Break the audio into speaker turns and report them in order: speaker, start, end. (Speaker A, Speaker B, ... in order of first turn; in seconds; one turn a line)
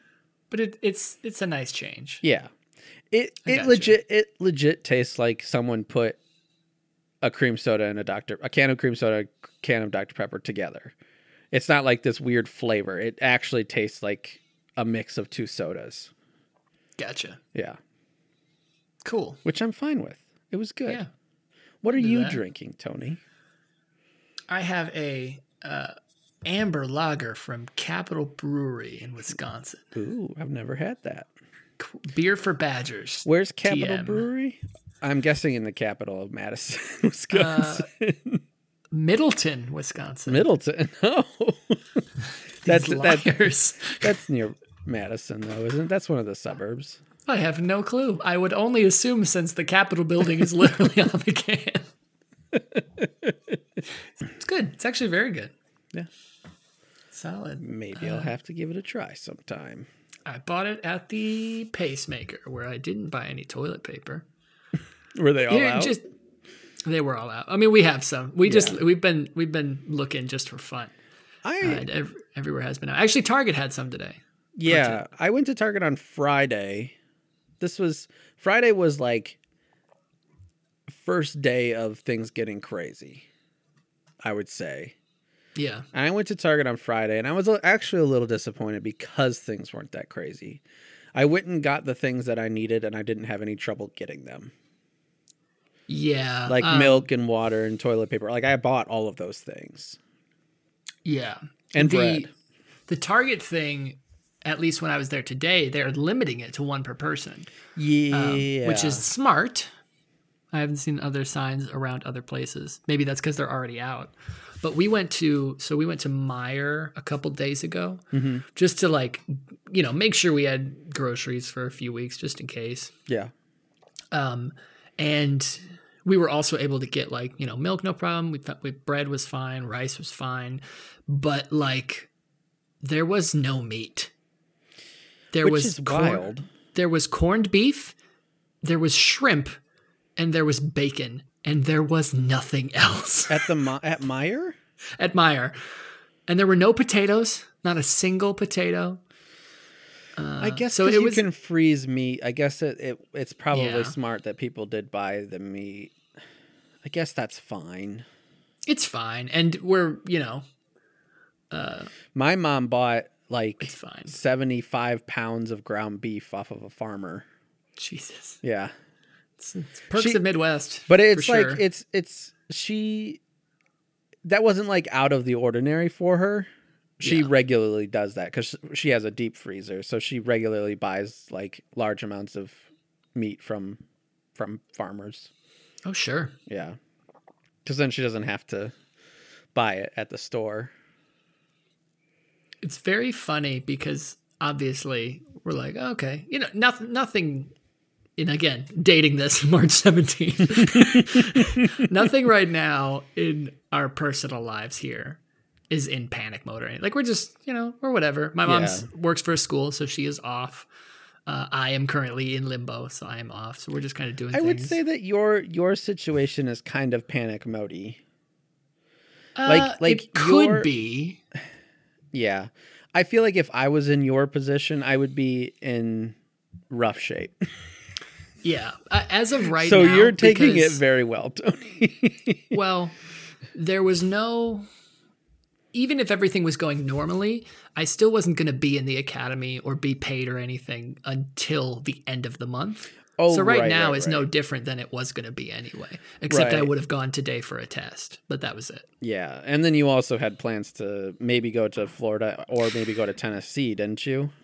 Speaker A: 0.5-2.2
Speaker B: 2.2-2.5
Speaker B: 3.1-6.2
Speaker A: 3.4-4.0
Speaker B: 7.2-10.9
Speaker B: 11.5-16.1
Speaker A: 17.0-17.4
Speaker A: 19.0-19.4
Speaker B: 19.4-21.0
Speaker B: 21.8-23.2
Speaker A: 22.0-22.4
Speaker A: 24.5-25.9
Speaker A: 26.4-29.9
Speaker B: 29.9-31.3
Speaker A: 31.8-34.3
Speaker B: 33.2-38.4
Speaker A: 37.3-37.9
Speaker A: 38.9-40.5
Speaker B: 40.3-41.8
Speaker A: 42.6-44.1
Speaker B: 42.6-43.4
Speaker B: 44.0-47.0
Speaker A: 47.2-51.9
Speaker B: 52.5-53.5
Speaker A: 54.2-55.5
Speaker A: 57.1-58.3
Speaker B: 57.6-59.9
Speaker A: 60.2-64.2
Speaker B: 65.2-66.0
Speaker A: 65.5-66.0
Speaker A: 66.8-70.9
Speaker B: 68.4-68.8
Speaker B: 71.4-71.9
Speaker A: 71.6-75.0
Speaker B: 74.6-76.9
Speaker B: 77.6-79.4
Speaker B: 80.9-83.2
Speaker B: 84.2-84.9
Speaker A: 85.5-85.9
Speaker B: 85.9-90.6
Speaker B: 91.1-94.5
Speaker A: 95.9-97.1
Speaker B: 96.5-100.0
Speaker A: 101.0-102.3
Speaker B: 101.7-102.3
Speaker A: 102.9-107.5
Speaker B: 107.8-109.0
Speaker A: 108.1-109.7
Speaker A: 110.5-118.0
Speaker B: 118.1-118.4
Speaker A: 118.5-122.9
Speaker A: 124.1-132.1
Speaker A: 132.8-134.1
Speaker A: 135.3-137.9
Speaker B: 135.4-136.5
Speaker A: 138.6-139.6
Speaker A: 140.2-143.4
Speaker B: 143.3-144.6
Speaker A: 145.0-145.6
Speaker A: 146.3-149.0
Speaker A: 150.2-151.2
Speaker B: 150.4-155.9
Speaker A: 153.5-153.9
Speaker B: 156.8-158.1
Speaker A: 158.7-160.4
Speaker A: 161.5-161.9
Speaker B: 162.1-167.2
Speaker A: 163.6-164.2
Speaker A: 167.8-168.4
Speaker B: 168.4-168.7
Speaker A: 169.4-171.6
Speaker B: 169.9-170.2
Speaker B: 170.9-173.2
Speaker B: 174.2-176.5
Speaker A: 177.0-177.3
Speaker B: 177.0-182.6
Speaker B: 183.1-183.8
Speaker B: 184.3-185.3
Speaker A: 185.8-186.3
Speaker B: 186.5-186.8
Speaker B: 187.6-188.7
Speaker B: 189.5-190.7
Speaker A: 192.6-197.5
Speaker A: 198.2-205.2
Speaker B: 200.6-201.2
Speaker A: 205.7-210.7
Speaker B: 208.4-208.9
Speaker A: 211.3-214.8
Speaker B: 214.3-218.0
Speaker A: 219.3-221.2
Speaker B: 219.4-220.7
Speaker B: 222.1-226.2
Speaker B: 226.7-227.5
Speaker A: 228.4-230.8
Speaker B: 229.5-232.5
Speaker A: 232.5-232.9
Speaker A: 233.5-234.7
Speaker A: 235.7-248.8
Speaker B: 243.2-244.3
Speaker B: 246.3-246.7
Speaker B: 249.0-254.3